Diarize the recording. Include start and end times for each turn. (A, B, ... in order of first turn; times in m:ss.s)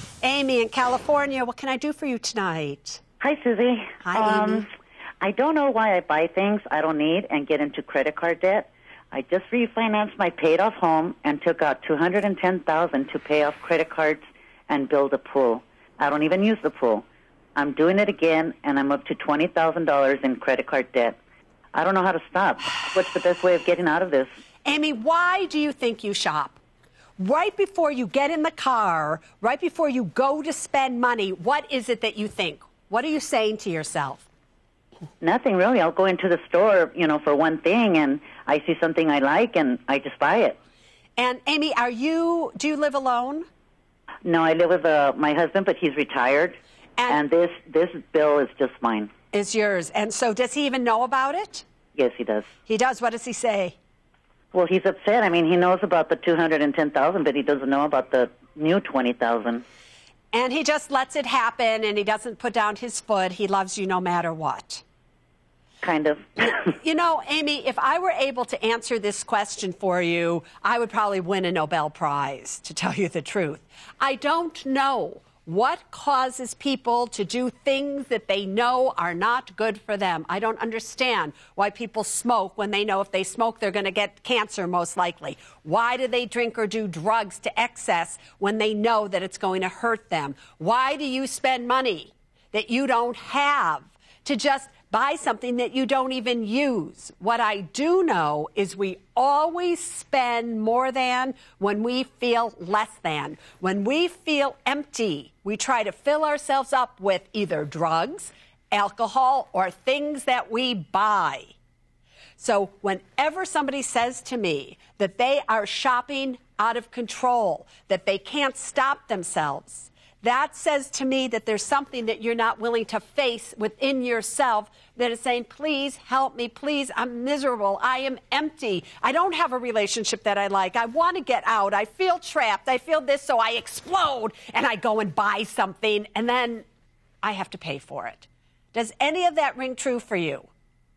0:00.2-0:03.0 A
0:03.2-0:04.7 B
0:04.0-0:04.7 A
0:05.2-0:17.0 B
0:17.6-0:21.2 B
0:21.7-0:24.3 B
0:24.6-0:26.6 A
0:27.2-0:34.3 A
0:35.2-0:40.6 B
0:41.2-0:43.4 A
0:44.2-0:46.6 B
0:47.1-0:49.1 B
0:49.3-0:51.6 A
0:51.9-0:52.4 B
0:52.7-0:53.8 A
0:54.5-0:59.6 B
1:00.3-1:04.8 A
1:05.8-1:06.7 B
1:06.4-1:51.5 A
1:52.4-2:16.6 A
2:17.2-2:20.5 A